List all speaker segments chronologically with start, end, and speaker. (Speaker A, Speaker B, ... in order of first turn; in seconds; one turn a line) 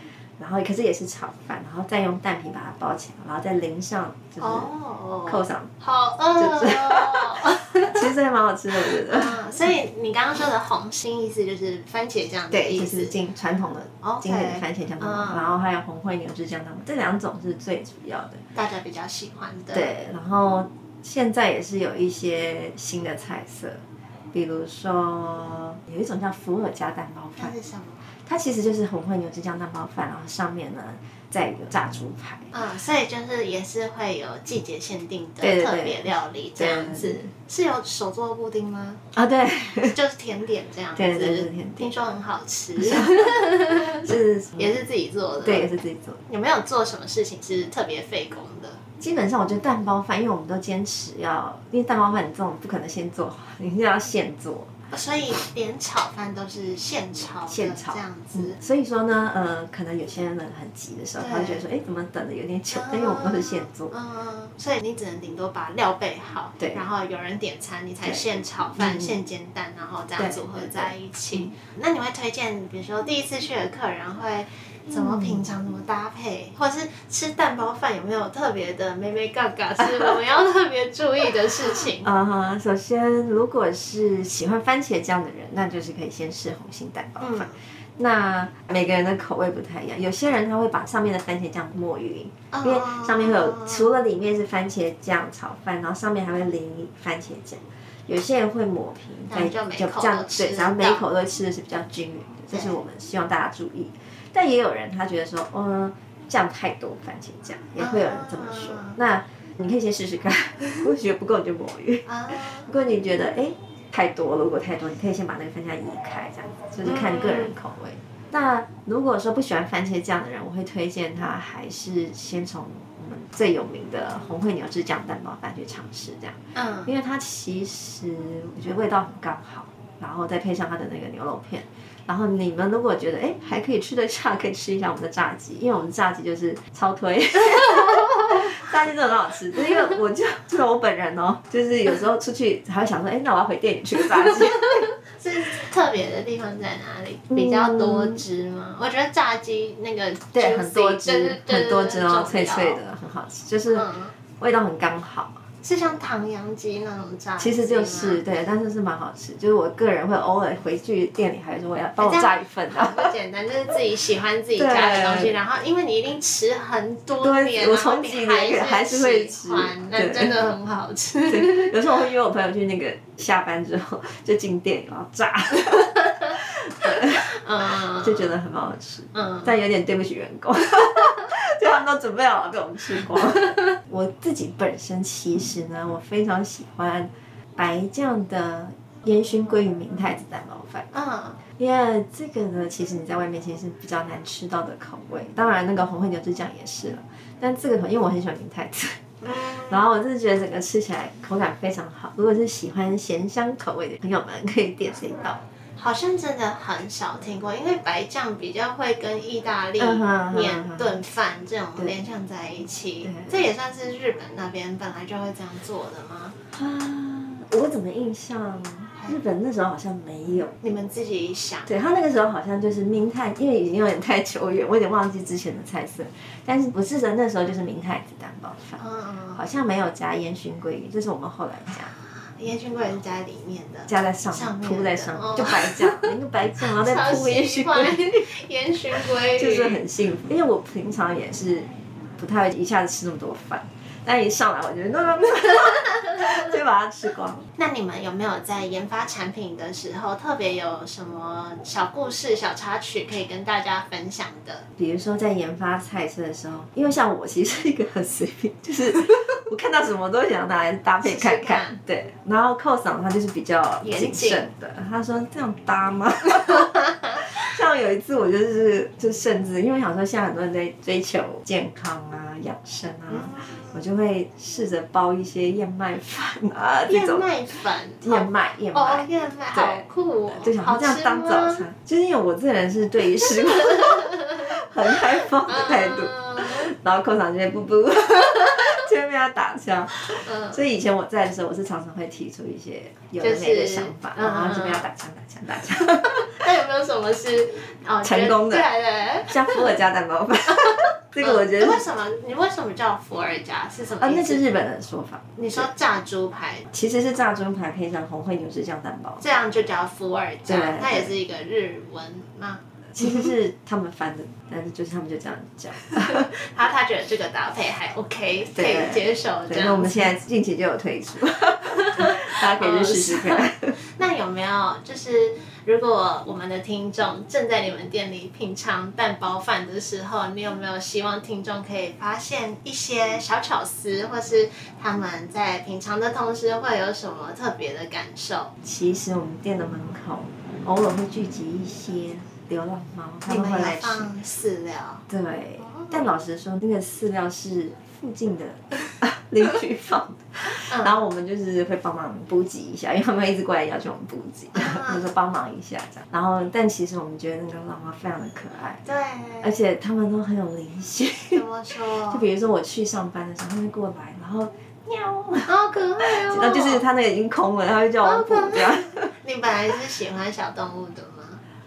Speaker A: 0.4-4.7
Speaker B: 4.4-8.1
Speaker A: 5.3-5.7
Speaker A: 6.4-9.5
Speaker B: 8.8-13.2
Speaker A: 12.5-18.4
Speaker B: 14.0-15.5
Speaker B: 18.6-19.9
Speaker A: 19.7-27.6
Speaker B: 27.4-28.1
Speaker A: 28.2-32.5
Speaker B: 32.5-39.0
Speaker A: 35.4-37.3
Speaker A: 39.1-40.0
Speaker B: 39.9-44.1
Speaker A: 41.0-42.0
Speaker A: 42.8-44.8
Speaker B: 44.6-45.7
Speaker A: 45.4-46.2
Speaker B: 46.3-48.8
Speaker A: 49.0-54.7
Speaker B: 54.9-58.6
Speaker A: 57.5-63.9
Speaker B: 61.2-61.6
Speaker B: 62.7-82.1
Speaker A: 68.8-69.2
Speaker A: 70.2-71.5
Speaker A: 74.9-75.5
Speaker A: 82.0-144.9
Speaker B: 87.2-87.6
Speaker B: 92.5-93.9
Speaker B: 99.3-101.1
Speaker B: 102.5-102.8
Speaker B: 107.8-109.0
Speaker B: 112.1-112.7
Speaker B: 116.8-117.5
Speaker B: 126.5-126.9
Speaker B: 144.3-152.8
Speaker A: 147.3-148.2
Speaker A: 150.3-155.4
Speaker B: 153.7-154.1
Speaker B: 155.6-158.2
Speaker A: 157.4-163.1
Speaker B: 162.0-171.8
Speaker A: 164.6-165.4
Speaker A: 167.2-170.4
Speaker A: 171.3-190.9
Speaker B: 176.9-178.3
Speaker B: 179.1-179.5
Speaker B: 183.1-183.7
Speaker B: 190.9-191.4
Speaker A: 191.6-205.4
Speaker B: 199.2-199.8
Speaker B: 205.8-216.4
Speaker A: 209.8-211.0
Speaker A: 213.1-213.4
Speaker A: 216.5-220.6
Speaker B: 220.6-221.7
Speaker A: 221.7-228.8
Speaker B: 228.8-229.4
Speaker A: 229.3-231.9
Speaker B: 232.4-239.8
Speaker A: 233.9-238.3
Speaker A: 239.1-247.5
Speaker B: 247.6-254.7
Speaker A: 254.8-277.3
Speaker B: 261.0-261.8
Speaker B: 263.8-264.5
Speaker B: 273.1-273.8
Speaker B: 276.9-281.7
Speaker A: 278.0-296.4
Speaker B: 283.4-286.7
Speaker B: 290.1-290.6
Speaker B: 293.2-294.9
Speaker B: 295.7-299.8
Speaker A: 298.0-298.7
Speaker A: 299.3-301.8
Speaker B: 300.6-304.5
Speaker A: 304.0-305.7
Speaker B: 305.4-306.7
Speaker A: 306.7-309.7
Speaker B: 309.2-313.3
Speaker A: 310.5-311.2
Speaker A: 312.9-316.3
Speaker B: 316.0-320.1
Speaker A: 318.5-323.8
Speaker B: 321.9-338.5
Speaker A: 338.6-344.1
Speaker B: 343.3-345.1
Speaker A: 345.1-358.9
Speaker B: 345.6-346.1
Speaker B: 350.7-351.0
Speaker B: 354.6-355.1
Speaker B: 358.9-359.5
Speaker A: 359.4-361.4
Speaker B: 361.3-362.3
Speaker A: 362.1-369.1
Speaker B: 365.5-366.9
Speaker B: 368.0-371.4